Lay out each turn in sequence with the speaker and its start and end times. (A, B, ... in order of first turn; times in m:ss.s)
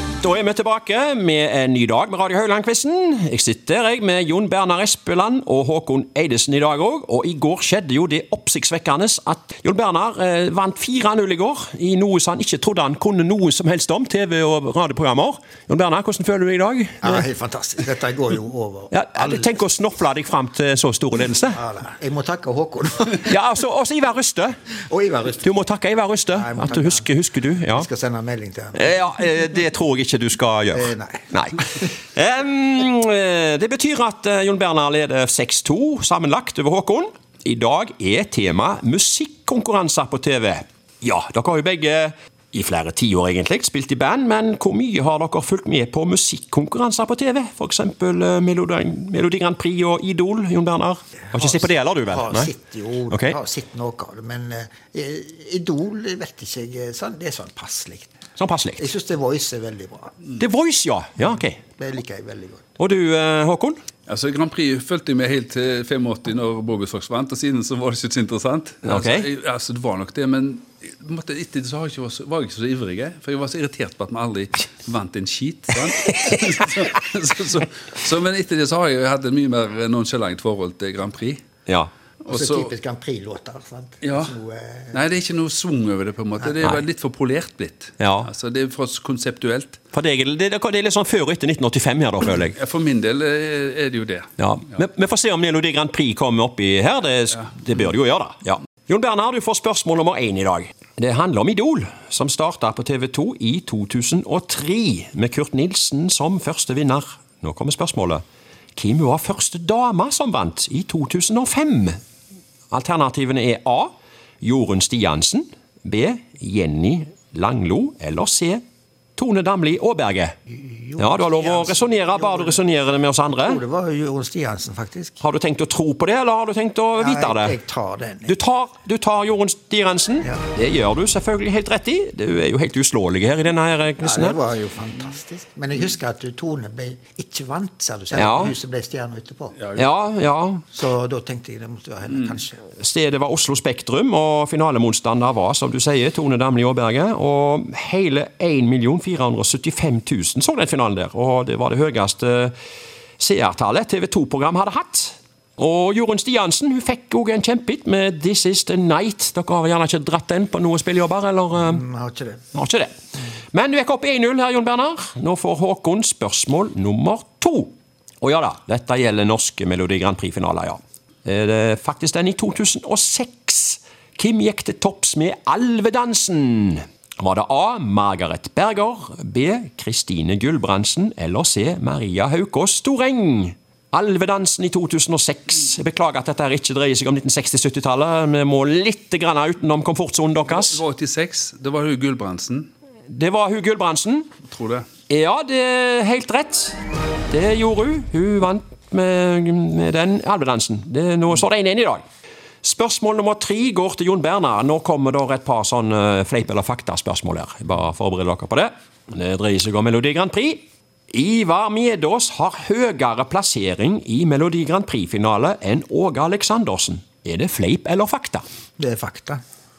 0:00.2-0:17.2 A
0:17.0-0:19.5 B
0:18.9-0:21.6 A
0:21.5-0:23.3 B
0:23.3-0:24.5 A
0:24.9-0:25.6 B
0:25.4-0:27.9 A
0:26.3-0:27.1 B
0:27.7-0:28.9 B
0:28.7-0:52.5 A
0:30.7-0:31.3 B
0:51.3-0:58.1 B
0:53.1-0:53.4 A
0:58.4-0:58.8 A
0:58.8-1:00.2 B
1:00.4-1:01.6 A
1:01.8-1:02.6 B
1:02.8-1:03.8 A
1:04.1-1:21.4 C
1:08.8-1:09.3 A
1:21.6-1:21.9 A
1:22.2-1:22.7 C
1:22.3-1:25.0 B
1:24.0-1:24.3 C
1:24.9-1:29.8 C
1:28.0-1:28.3 A
1:29.9-1:32.6 A
1:32.6-1:34.3 C
1:34.4-1:48.2 A
1:48.8-1:52.0 A
1:52.7-1:58.6 A
1:59.2-2:00.3 A
2:00.5-2:02.6 B
2:01.0-2:03.6 A
2:03.3-2:05.2 B
2:05.2-2:07.6 A
2:07.0-2:08.3 B
2:08.2-2:14.4 A
2:14.0-2:19.6 B
2:18.1-2:18.5 A
2:19.7-2:20.6 A
2:20.7-2:22.6 B
2:22.7-2:32.5 A
2:33.2-2:41.8 A
2:41.6-2:42.4 B
2:42.5-2:42.9 A
2:43.5-3:10.8 A
3:10.5-3:12.7 C
3:13.1-3:14.3 A
3:14.5-3:14.8 C
3:15.1-3:16.8 A
3:17.3-3:22.0 A
3:22.6-3:38.4 A
3:38.8-3:39.4 B